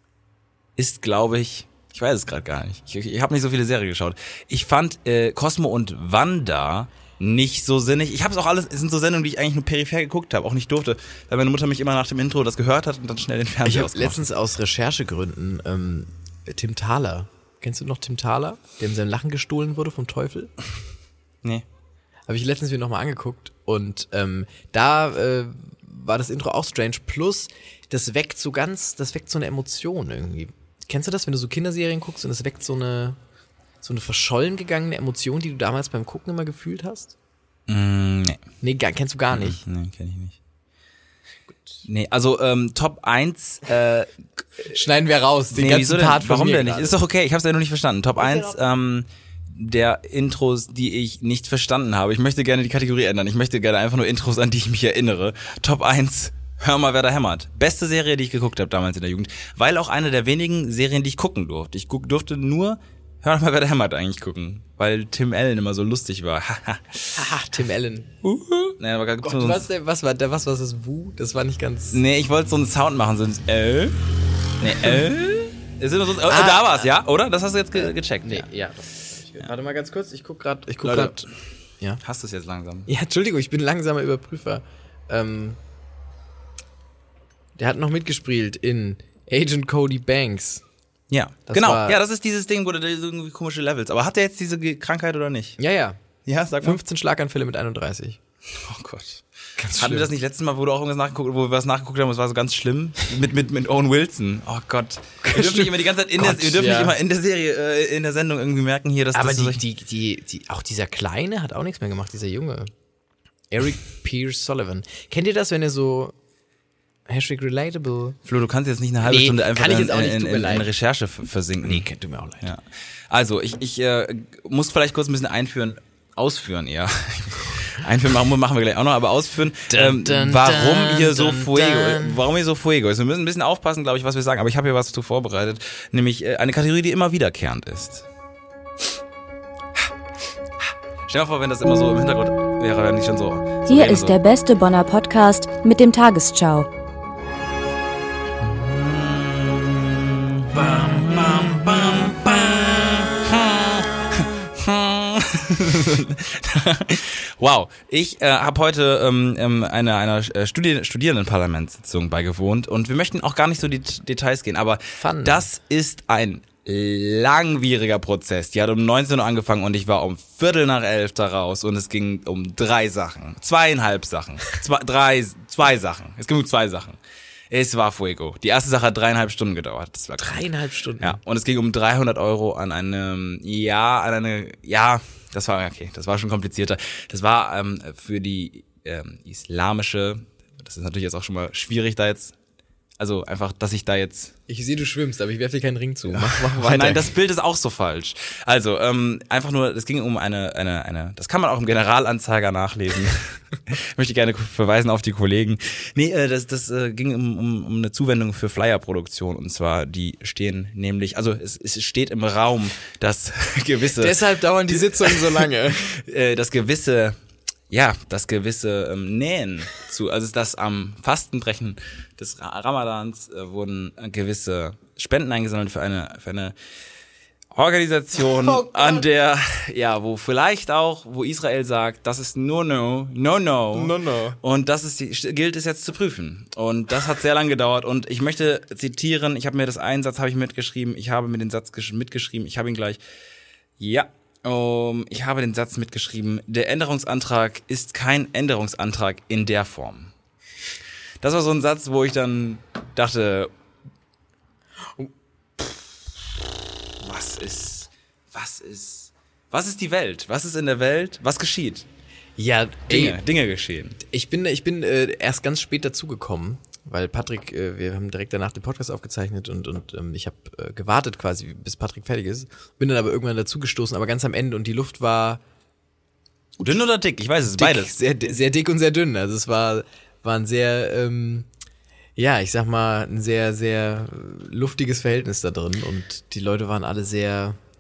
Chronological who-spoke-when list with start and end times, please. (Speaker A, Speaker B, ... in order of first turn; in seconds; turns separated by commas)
Speaker A: 0.8-14.2, Speaker B: 13.7-20.5, Speaker B: 22.3-33.2, Speaker B: 33.8-37.1, Speaker A: 37.7-38.4, Speaker B: 38.6-39.6, Speaker A: 39.3-40.4, Speaker B: 41.5-41.8, Speaker A: 41.9-44.6, Speaker B: 44.6-47.0, Speaker A: 45.5-67.3, Speaker B: 67.1-68.1, Speaker A: 68.2-69.7, Speaker B: 69.2-72.0, Speaker A: 71.9-74.0, Speaker A: 74.6-78.5, Speaker B: 76.3-76.9, Speaker B: 77.8-81.2, Speaker A: 80.8-81.3, Speaker A: 82.0-82.9, Speaker B: 82.9-85.6, Speaker B: 87.6-90.6, Speaker A: 91.1-95.6, Speaker B: 91.5-92.0, Speaker B: 95.6-96.0, Speaker A: 96.3-96.8, Speaker B: 96.6-98.2, Speaker A: 98.5-99.2, Speaker B: 99.6-100.1, Speaker A: 99.8-109.6, Speaker B: 105.2-107.0, Speaker B: 109.1-112.7, Speaker B: 113.5-116.1, Speaker B: 117.1-118.2, Speaker A: 118.2-121.9, Speaker B: 119.0-120.7, Speaker B: 121.6-122.5, Speaker A: 122.4-138.1, Speaker B: 129.7-132.2, Speaker A: 141.1-144.2, Speaker C: 143.7-146.7, Speaker A: 148.4-180.5, Speaker B: 165.0-165.5, Speaker B: 180.2-181.2, Speaker A: 181.0-192.3, Speaker A: 193.0-194.3, Speaker B: 194.5-197.1, Speaker A: 196.1-217.2, Speaker B: 214.0-215.9, Speaker A: 217.7-226.6, Speaker A: 227.5-243.0, Speaker B: 228.4-229.0, Speaker B: 233.7-234.4, Speaker A: 243.8-250.1, Speaker A: 251.2-253.5, Speaker B: 255.0-255.8, Speaker A: 257.0-261.9, Speaker B: 262.4-263.2, Speaker A: 262.9-264.0, Speaker B: 264.0-275.4, Speaker A: 276.6-277.9, Speaker B: 277.5-281.5, Speaker B: 282.2-287.6